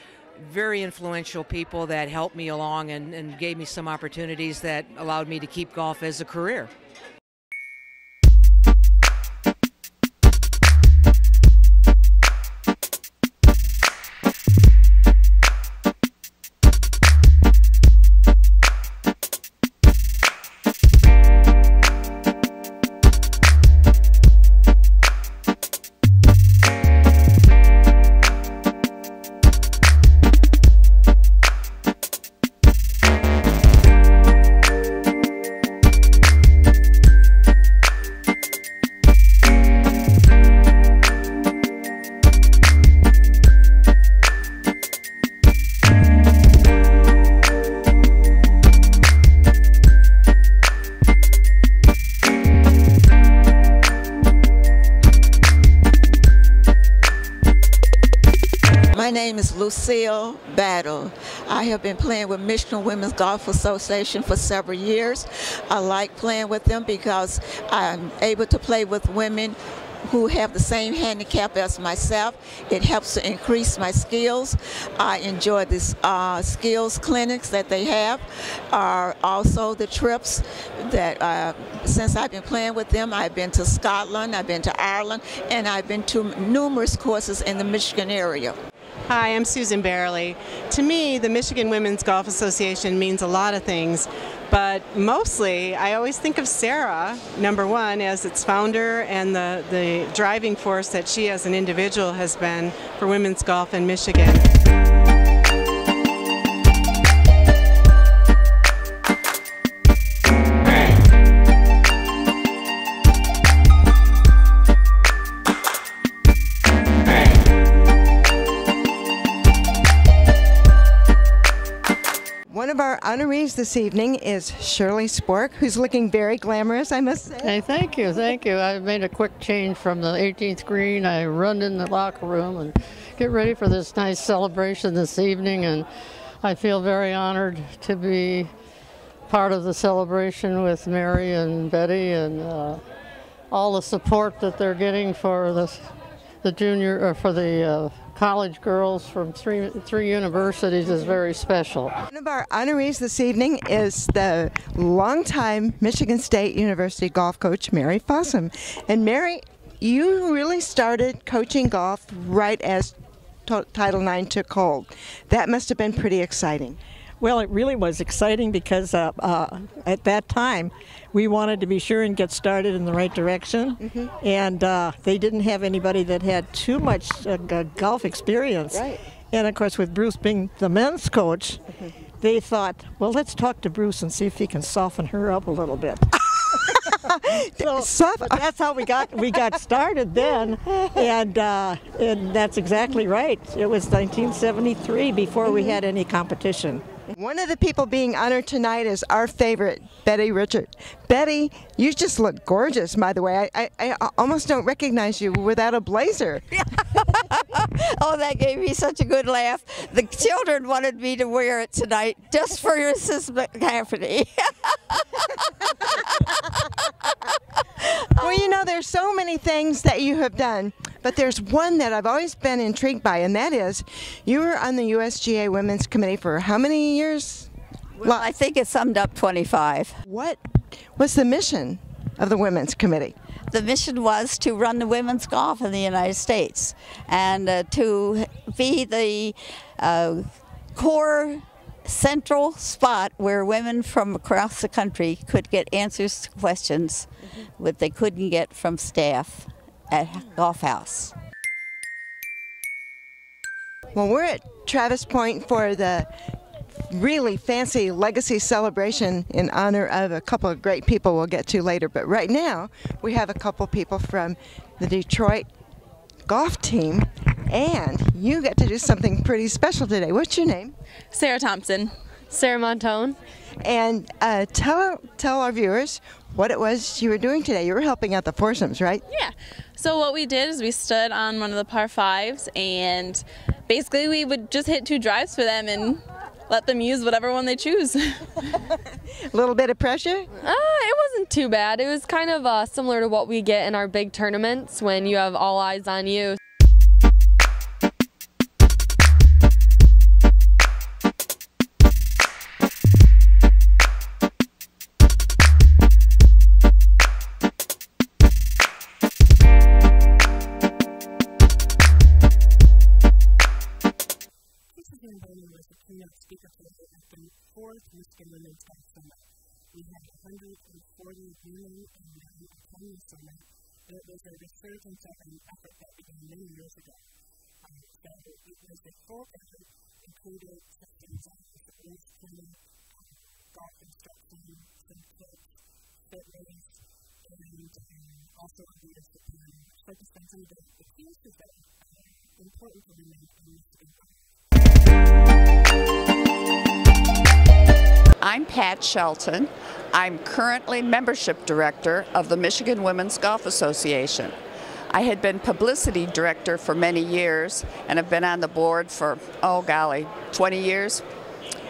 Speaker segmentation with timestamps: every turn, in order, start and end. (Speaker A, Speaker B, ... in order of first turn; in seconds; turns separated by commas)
Speaker A: 0.4-6.7, Speaker B: 58.9-88.5, Speaker C: 89.1-104.4, Speaker D: 122.5-127.6, Speaker E: 127.4-135.8, Speaker E: 136.4-138.5, Speaker E: 139.3-142.8, Speaker E: 143.5-145.8, Speaker E: 146.4-151.9, Speaker D: 152.1-166.8, Speaker F: 167.2-178.7, Speaker D: 173.8-174.1, Speaker F: 179.3-181.6, Speaker F: 182.2-186.1, Speaker D: 186.5-188.5, Speaker F: 187.6-196.8, Speaker D: 195.4-195.8, Speaker D: 197.1-206.4, Speaker G: 207.3-215.0, Speaker D: 218.2-227.5, Speaker G: 228.0-230.0, Speaker D: 228.0-228.3, Speaker D: 230.0-230.4, Speaker D: 230.9-233.1, Speaker G: 233.5-247.1, Speaker G: 247.6-251.1, Speaker D: 253.9-256.1, Speaker D: 256.9-265.5, Speaker D: 266.3-270.7, Speaker H: 271.1-273.1, Speaker D: 273.6-279.0, Speaker H: 279.1-288.2, Speaker D: 289.3-290.3, Speaker I: 290.5-296.4, Speaker J: 314.7-319.1, Speaker J: 319.8-323.4, Speaker J: 323.9-326.9, Speaker J: 327.8-332.5, Speaker J: 333.6-335.4, Speaker J: 336.1-336.6, Speaker J: 337.3-344.0, Speaker K: 348.2-354.4, Speaker K: 354.9-361.0